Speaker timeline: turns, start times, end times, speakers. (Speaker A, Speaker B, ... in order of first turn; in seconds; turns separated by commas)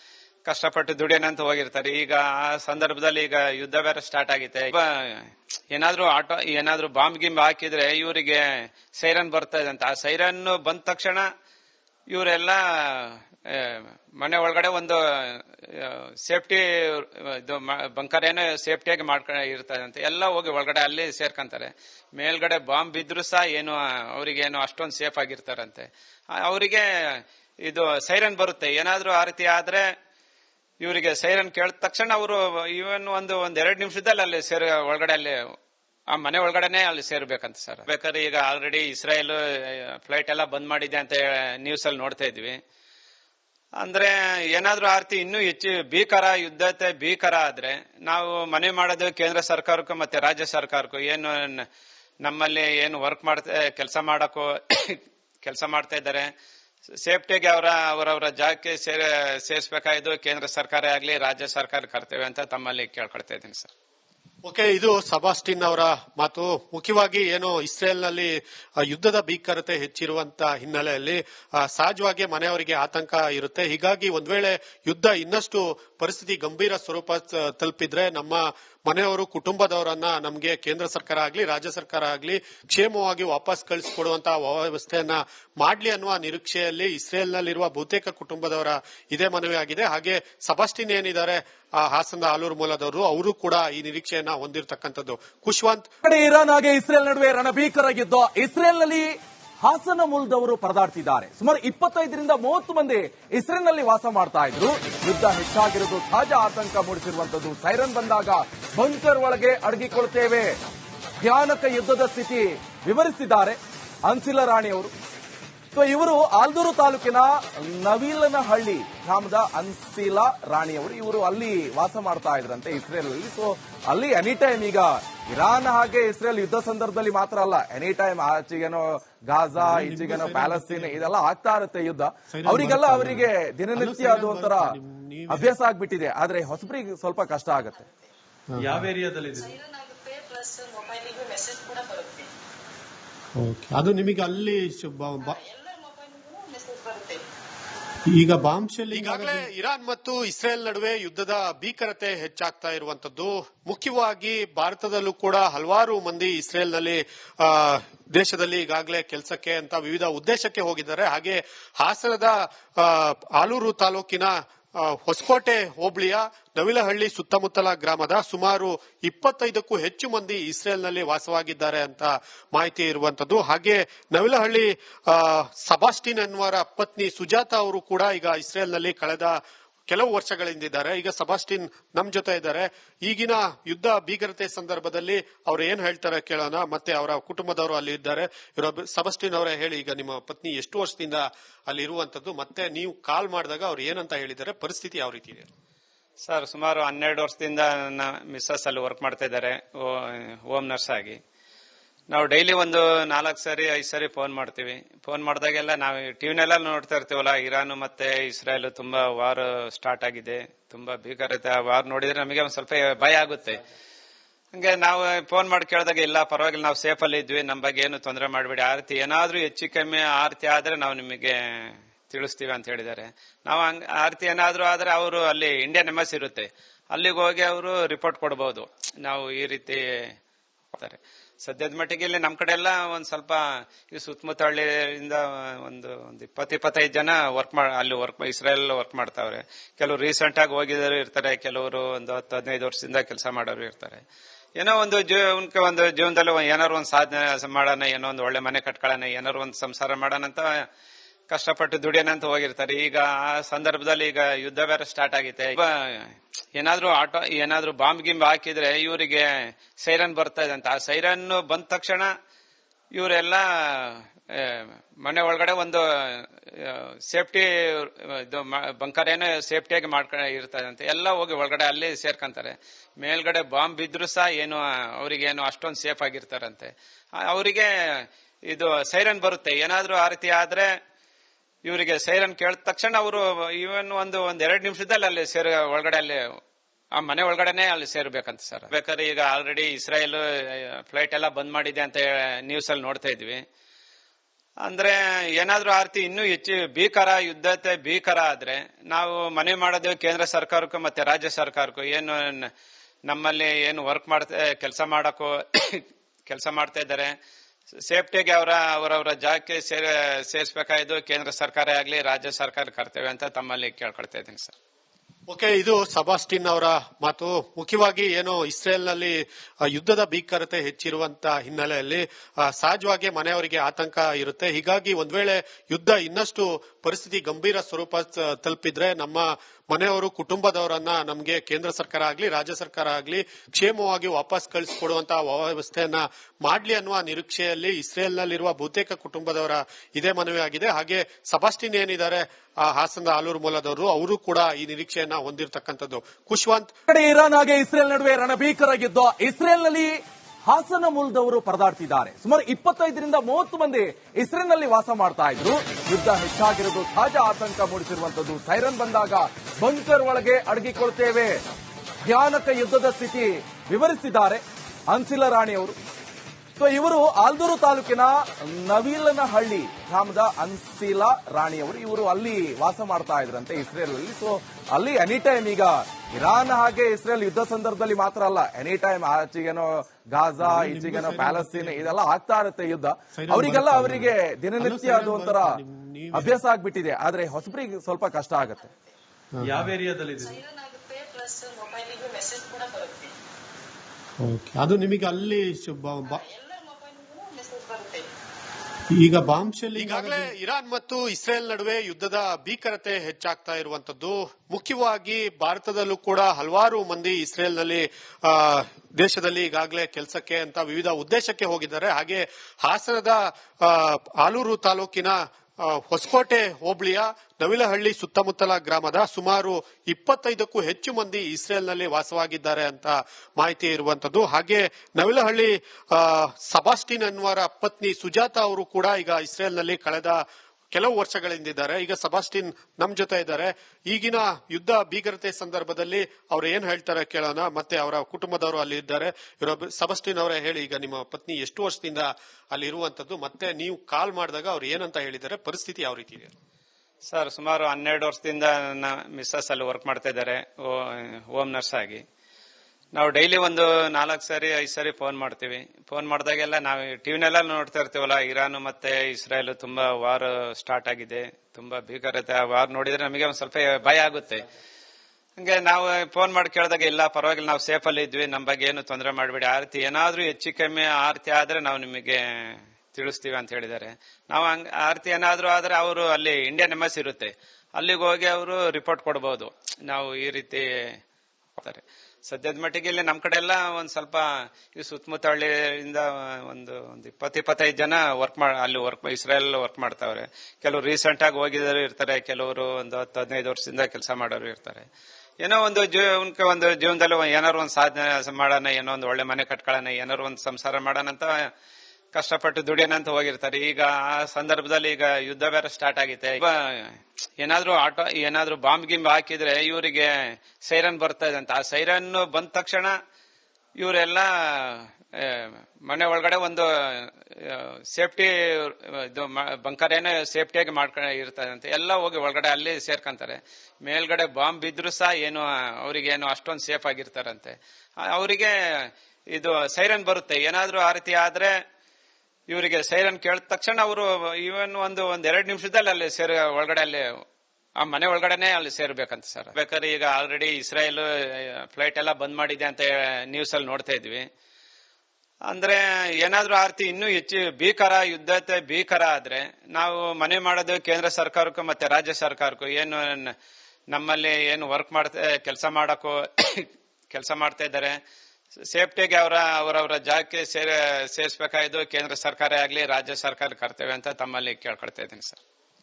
Speaker A: 0.5-8.4, Speaker A: 8.9-11.2, Speaker A: 12.1-25.9, Speaker A: 26.4-29.9, Speaker A: 30.8-35.4, Speaker A: 36.1-42.6, Speaker A: 43.8-51.7, Speaker A: 52.2-56.3, Speaker A: 57.0-63.7, Speaker B: 64.4-95.9, Speaker C: 96.0-110.6, Speaker C: 111.2-114.9, Speaker C: 115.7-134.7, Speaker D: 129.6-131.1, Speaker D: 132.3-135.5, Speaker C: 135.3-137.8, Speaker D: 138.5-138.8, Speaker E: 138.6-139.6, Speaker F: 139.4-142.3, Speaker D: 143.4-145.3, Speaker F: 145.2-147.2, Speaker D: 148.1-149.4, Speaker B: 148.9-195.5, Speaker A: 196.2-201.2, Speaker A: 202.1-213.6, Speaker A: 214.5-230.1, Speaker A: 230.7-244.0, Speaker A: 244.6-250.5, Speaker A: 251.3-259.3, Speaker A: 259.8-262.1, Speaker A: 262.9-276.7, Speaker A: 277.2-280.7, Speaker A: 281.6-286.2, Speaker A: 287.0-293.4, Speaker A: 294.6-302.5, Speaker A: 303.1-307.1, Speaker A: 307.9-314.5, Speaker B: 315.3-346.7, Speaker C: 346.9-361.4, Speaker C: 362.1-365.8, Speaker C: 366.6-385.6, Speaker D: 380.4-381.9, Speaker D: 383.1-386.4, Speaker C: 386.1-388.7, Speaker D: 389.4-389.7, Speaker E: 389.4-390.4, Speaker F: 390.3-393.1, Speaker D: 394.2-396.1, Speaker F: 396.1-398.1, Speaker D: 398.9-399.9, Speaker B: 399.7-430.2, Speaker E: 399.9-400.2, Speaker B: 430.7-446.3, Speaker A: 447.1-452.0, Speaker A: 452.9-464.4, Speaker A: 465.4-481.0, Speaker A: 481.6-494.8, Speaker A: 495.4-501.3, Speaker A: 502.1-512.9, Speaker A: 513.8-527.5, Speaker A: 528.1-531.5, Speaker A: 532.5-537.0, Speaker A: 537.8-544.2, Speaker A: 545.5-553.3, Speaker A: 553.9-558.0, Speaker A: 558.7-565.4